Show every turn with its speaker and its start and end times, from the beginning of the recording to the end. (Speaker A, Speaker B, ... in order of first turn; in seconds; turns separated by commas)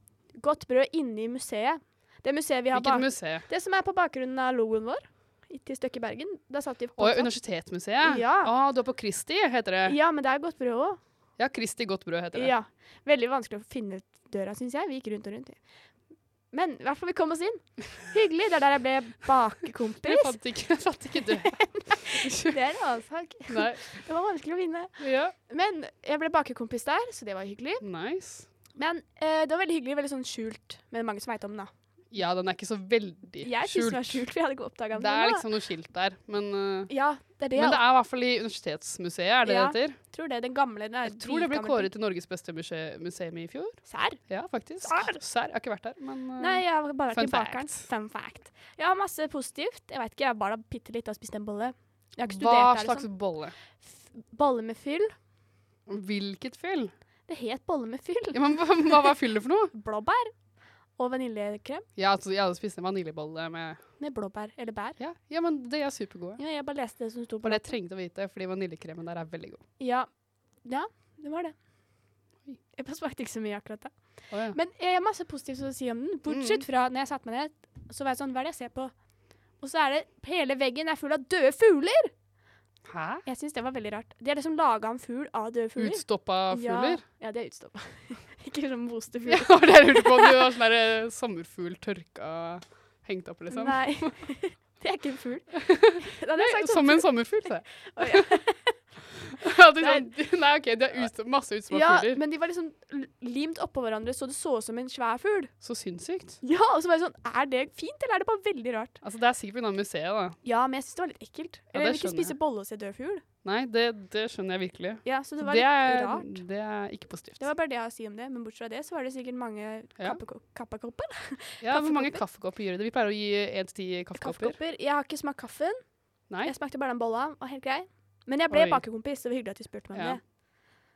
Speaker A: 0.3-8.5, Speaker B: 2.7-3.5, Speaker B: 7.0-10.0, Speaker A: 9.9-11.0, Speaker B: 11.4-12.5, Speaker A: 12.3-15.6, Speaker A: 16.5-20.4, Speaker B: 20.0-22.5, Speaker A: 21.4-27.8, Speaker B: 23.5-23.9, Speaker B: 25.0-25.3, Speaker B: 27.8-28.5, Speaker A: 28.8-31.7, Speaker B: 32.1-34.2, Speaker A: 33.4-35.5, Speaker B: 34.9-36.9, Speaker A: 36.9-37.8, Speaker B: 37.5-40.0, Speaker A: 39.5-41.9, Speaker B: 41.0-47.9, Speaker A: 43.9-45.2, Speaker A: 46.4-53.1, Speaker B: 52.3-53.5, Speaker A: 53.8-55.1, Speaker B: 55.9-56.9, Speaker A: 57.3-58.7, Speaker B: 58.3-59.7, Speaker A: 59.7-60.3, Speaker A: 61.0-61.9, Speaker B: 62.0-63.8, Speaker A: 64.0-65.0, Speaker B: 65.0-66.4, Speaker A: 66.4-67.7, Speaker B: 67.4-69.6, Speaker A: 69.8-71.5, Speaker A: 72.8-78.9, Speaker B: 74.3-74.6, Speaker B: 76.3-76.6, Speaker A: 79.6-82.1, Speaker B: 82.9-83.2, Speaker A: 83.2-90.3, Speaker B: 85.8-87.0, Speaker B: 89.3-94.2, Speaker A: 93.5-98.8, Speaker B: 95.7-98.3, Speaker B: 99.4-102.2, Speaker A: 99.8-100.1, Speaker A: 101.7-105.5, Speaker B: 105.6-106.4, Speaker A: 106.4-109.0, Speaker B: 109.0-110.4, Speaker A: 110.4-113.2, Speaker B: 111.7-112.4, Speaker B: 113.4-117.5, Speaker A: 115.0-116.4, Speaker A: 117.4-122.2, Speaker B: 121.6-124.6, Speaker A: 124.2-130.2, Speaker B: 128.5-128.8, Speaker B: 129.9-130.2